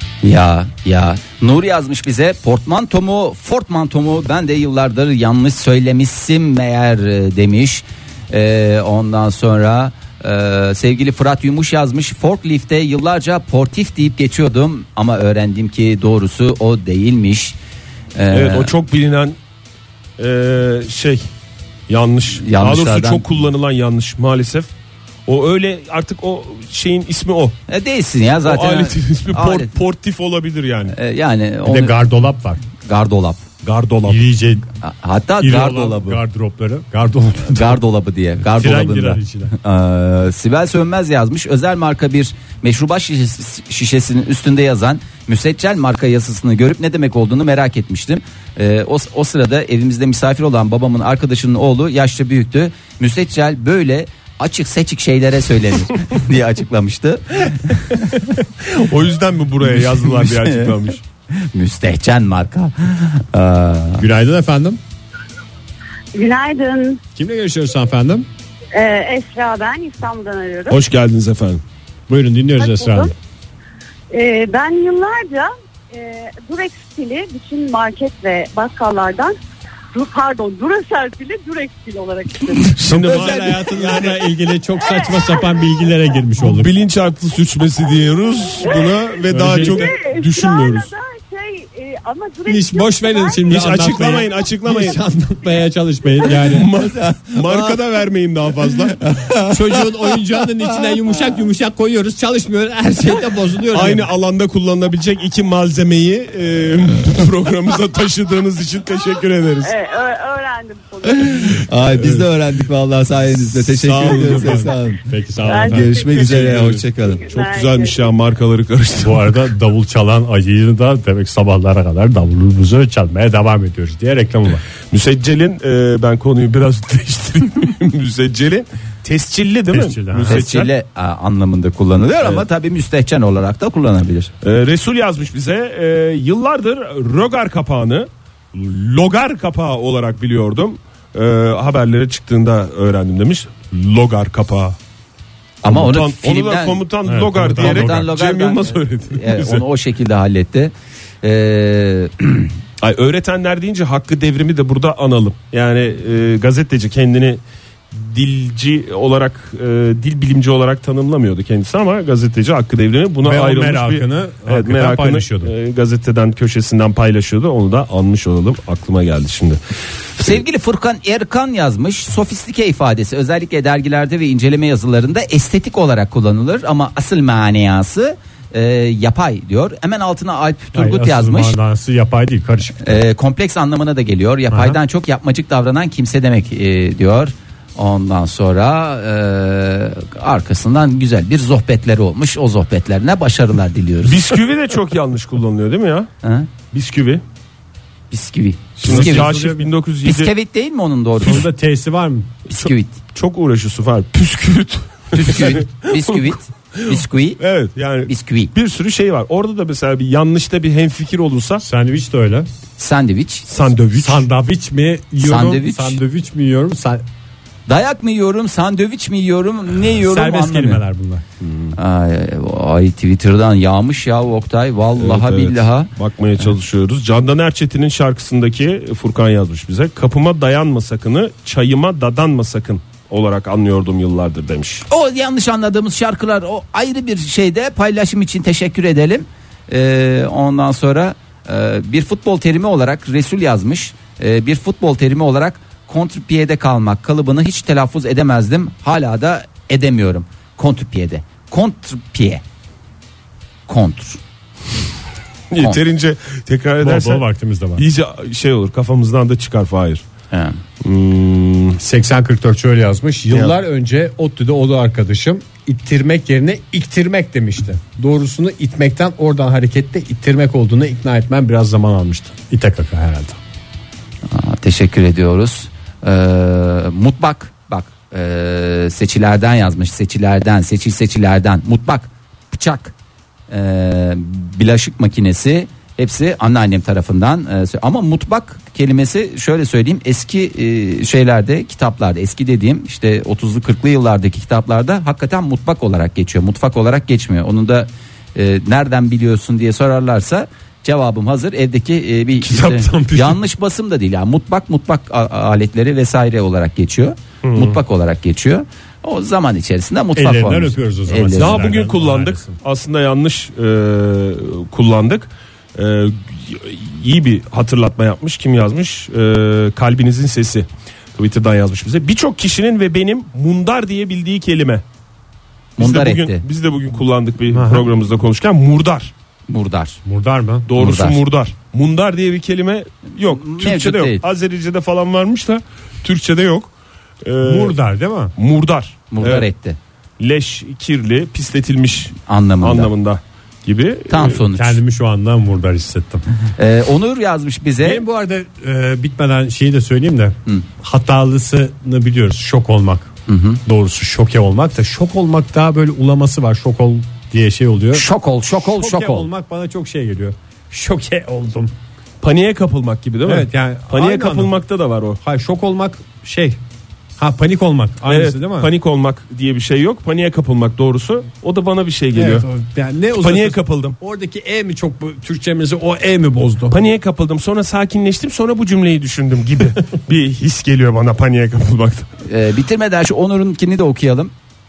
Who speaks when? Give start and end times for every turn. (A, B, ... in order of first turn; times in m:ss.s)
0:00.2-0:17.6 A
0:18.1-0:18.7 A
0:18.3-0:19.4 B
0:20.2-0:21.2 B
0:21.9-0:24.7 B
0:22.4-0:23.2 A
0:25.3-0:27.6 B
0:27.7-0:29.7 A
0:28.4-0:31.0 B
0:30.9-0:32.0 A
0:31.6-0:32.6 C
0:32.8-0:33.4 A
0:33.6-0:34.2 B
0:34.0-0:34.7 C
0:34.8-0:36.2 A
0:35.4-0:37.8 C
0:37.4-0:58.2 A
0:38.4-0:39.6 C
0:58.6-1:01.0 B
0:59.7-1:00.8 A
1:01.3-1:04.0 A
1:04.0-1:04.8 C
1:06.1-1:07.0 D
1:07.1-1:08.3 C
1:08.7-1:10.8 D
1:10.7-1:11.6 B
1:12.1-1:13.1 C
1:12.6-1:13.1 D
1:14.1-1:19.3 D
1:19.9-1:22.8 D
1:22.6-1:26.7 C
1:22.8-1:24.4 B
1:24.9-1:25.2 D
1:26.4-1:30.9 B
1:29.3-1:29.9 C
1:29.5-1:34.2 D
1:32.4-1:36.7 C
1:33.5-1:35.0 B
1:36.4-1:39.0 B
1:36.8-1:37.8 A
1:39.0-1:40.2 A
1:39.4-1:44.1 C
1:43.7-1:49.7 B
1:49.6-1:51.3 D
1:51.0-1:55.0 A
1:53.6-1:54.7 B
1:54.0-1:56.0 C
1:55.5-1:56.3 D
1:55.5-1:57.2 A
1:56.1-1:59.4 B
1:57.2-1:58.0 D
1:59.0-2:04.6 C
2:04.9-2:10.7 B
2:09.7-2:10.4 C
2:10.3-2:14.3 A
2:14.4-2:24.8 B
2:25.6-2:26.8 A
2:25.6-2:29.6 B
2:27.0-2:28.1 C
2:27.6-2:32.5 A
2:32.8-2:49.6 B
2:43.2-2:45.5 C
2:50.2-3:01.6 A
3:00.7-3:03.0 C
3:02.8-3:14.4 A
3:04.5-3:04.8 C
3:14.0-3:16.1 B
3:16.2-3:16.5 A
3:16.7-3:17.2 B
3:18.1-3:19.3 A
3:18.8-3:20.3 B
3:18.8-3:19.7 C
3:20.0-3:21.5 A
3:21.2-3:22.3 C
3:22.5-3:23.0 A
3:22.5-3:31.6 B
3:25.1-3:27.4 A
3:28.0-3:28.5 A
3:31.6-3:32.5 C
3:32.8-3:33.5 A
3:33.5-3:34.3 B
3:34.0-3:37.0 C
3:35.2-3:36.0 A
3:37.7-3:40.8 A
3:39.9-3:41.2 C
3:41.4-3:41.7 B
3:41.7-3:45.9 A
3:45.0-3:54.8 B
3:54.9-4:12.4 A
4:13.7-4:14.2 A
4:15.5-4:17.2 B
4:16.8-4:17.8 C
4:17.8-4:20.0 B
4:20.3-4:20.6 A
4:20.8-4:21.8 B
4:21.8-4:33.4 C
4:34.3-4:42.9 A
4:43.5-5:11.6 A
5:02.4-5:03.4 C
5:07.4-5:07.8 B
5:10.2-5:12.6 C
5:11.3-5:24.8 B
5:25.8-5:26.4 A
5:25.8-5:29.1 B
5:27.5-5:27.9 C
5:29.5-5:30.0 A
5:30.0-5:30.7 C
5:30.7-5:36.7 B
5:30.8-5:31.2 A
5:33.2-5:34.2 A
5:37.2-5:37.8 B
5:37.4-5:38.3 C
5:38.4-5:39.5 B
5:39.1-5:39.8 A
5:40.2-5:44.4 B
5:42.3-5:42.9 A
5:44.1-5:44.8 A
5:44.5-5:46.2 C
5:46.6-5:48.0 A
5:47.8-5:53.1 C
5:53.3-5:53.6 A
5:53.6-6:01.7 C
5:57.9-5:59.3 A
6:02.2-6:05.2 B
6:03.2-6:04.5 C
6:05.2-6:06.6 C
6:07.2-6:08.7 C
6:08.1-6:12.5 B
6:12.1-6:16.8 C
6:13.2-6:14.0 B
6:16.7-6:22.1 B
6:22.3-6:24.3 A